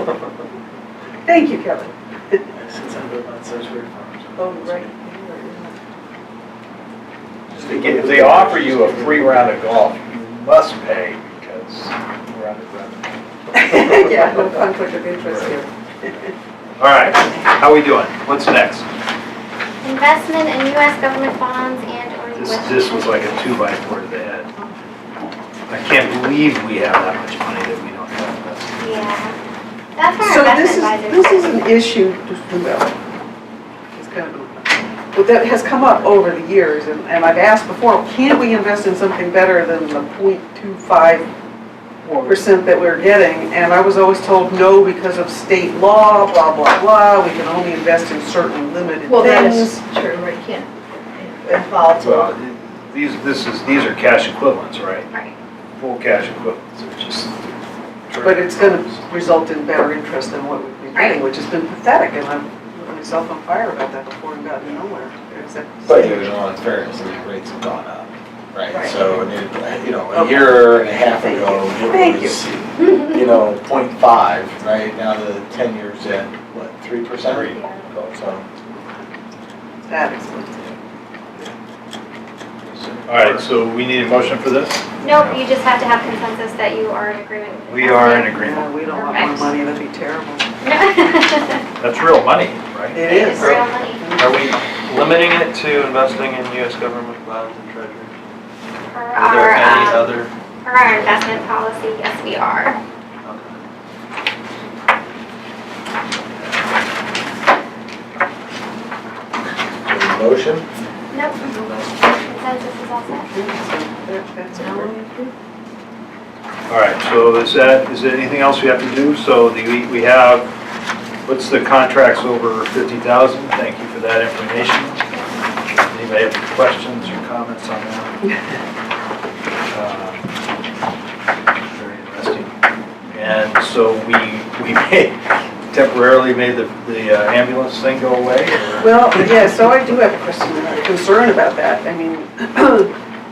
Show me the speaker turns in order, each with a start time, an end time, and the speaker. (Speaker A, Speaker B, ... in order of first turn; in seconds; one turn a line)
Speaker A: 1.2-2.4
Speaker B: 2.5-4.9
Speaker A: 4.4-5.7
Speaker B: 7.5-9.5
Speaker C: 7.5-13.9
Speaker A: 13.5-16.3
Speaker C: 15.2-15.5
Speaker C: 16.8-18.9
Speaker D: 19.8-23.4
Speaker C: 22.3-24.5
Speaker C: 25.7-29.0
Speaker D: 28.8-29.4
Speaker D: 29.9-31.6
Speaker A: 30.2-32.9
Speaker A: 33.9-41.3
Speaker C: 42.0-42.4
Speaker A: 42.2-49.8
Speaker E: 49.1-52.3
Speaker C: 52.0-55.1
Speaker D: 55.1-55.4
Speaker C: 55.8-59.0
Speaker A: 58.2-66.4
Speaker D: 60.9-61.2
Speaker B: 65.8-78.5
Speaker A: 70.1-72.4
Speaker C: 77.3-77.5
Speaker D: 77.5-77.8
Speaker A: 79.8-80.7
Speaker C: 82.7-85.4
Speaker D: 85.0-89.5
Speaker C: 87.7-88.7
Speaker A: 88.3-90.5
Speaker D: 90.6-91.6
Speaker C: 91.8-93.1
Speaker A: 92.9-94.5
Speaker D: 93.0-94.0
Speaker F: 94.2-98.1
Speaker D: 98.9-100.1
Speaker F: 99.2-100.3
Speaker D: 100.6-102.8
Speaker B: 109.8-110.7
Speaker D: 111.1-113.3
Speaker E: 111.5-111.7
Speaker A: 113.3-115.0
Speaker E: 114.5-115.3
Speaker C: 116.7-120.5
Speaker C: 121.2-125.0
Speaker C: 125.9-128.2
Speaker C: 129.7-130.3
Speaker C: 131.7-132.5
Speaker C: 133.1-139.3
Speaker A: 138.8-142.9